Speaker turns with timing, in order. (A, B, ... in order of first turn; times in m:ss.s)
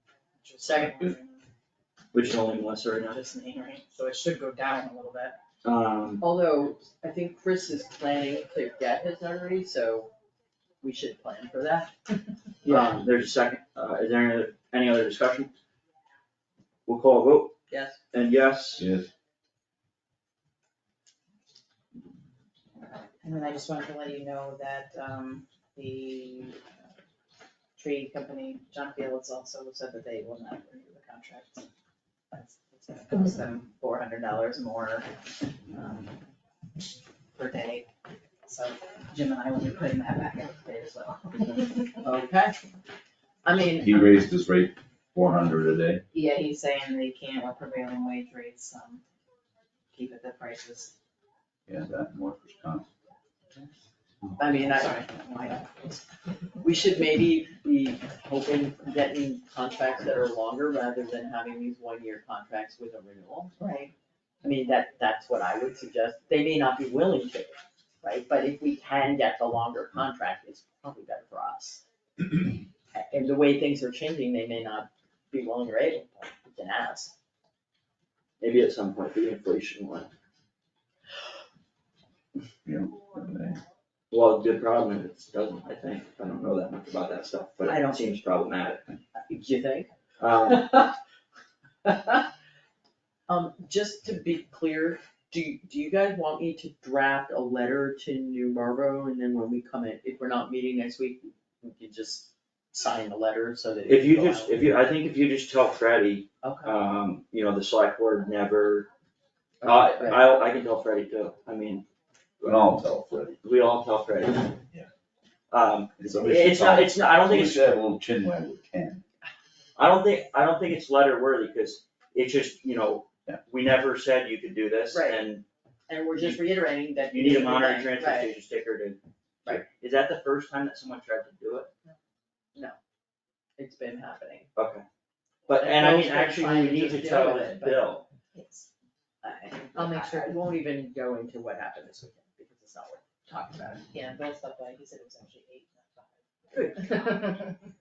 0:00.4-0:01.4 A
0:00.6-0:01.1 B
0:02.1-0:03.2 C
0:03.1-0:05.4 A
0:05.6-0:06.2 C
0:06.2-0:10.1 B
0:10.8-0:11.9 B
0:12.6-0:12.9 B
0:12.6-0:15.5 C
0:16.8-0:17.5 C
0:17.7-0:18.0 B
0:18.1-0:18.8 C
0:18.8-0:19.1 D
0:23.2-0:26.6 A
0:27.8-0:31.7 A
0:32.3-0:35.1 A
0:35.7-0:36.2 A
0:37.4-0:37.9 A
0:38.4-0:42.0 A
0:42.0-0:42.6 B
0:43.4-0:44.0 B
0:43.6-0:46.0 D
0:46.1-0:49.0 A
0:49.9-0:50.9 A
0:51.7-0:52.8 D
0:54.4-0:56.0 B
0:54.4-0:56.0 A
0:56.6-1:03.6 B
1:03.6-1:03.9 A
1:04.4-1:11.8 B
1:12.9-1:17.1 B
1:18.4-1:20.1 C
1:22.6-1:23.6 D
1:24.1-1:28.8 C
1:27.6-1:28.1 B
1:29.3-1:29.9 B
1:30.2-1:30.9 C
1:30.5-1:30.9 B
1:31.8-1:32.3 B
1:33.3-1:44.6 B
1:43.9-1:48.8 C
1:46.4-1:46.8 B
1:49.6-1:50.2 B
1:49.6-1:51.8 C
1:52.4-1:53.4 D
1:53.4-1:54.6 C
1:55.5-1:57.7 C
1:56.0-1:59.0 D
1:59.8-2:05.4 C
2:04.9-2:05.2 B
2:05.9-2:08.3 B
2:06.1-2:06.4 C
2:07.1-2:11.7 C
2:13.6-2:14.5 B
2:14.5-2:14.8 C
2:15.5-2:18.0 C
2:15.5-2:17.9 B
2:18.3-2:18.7 A
2:19.2-2:23.8 B
2:19.7-2:20.4 A
2:23.9-2:27.5 A
2:26.5-2:27.5 B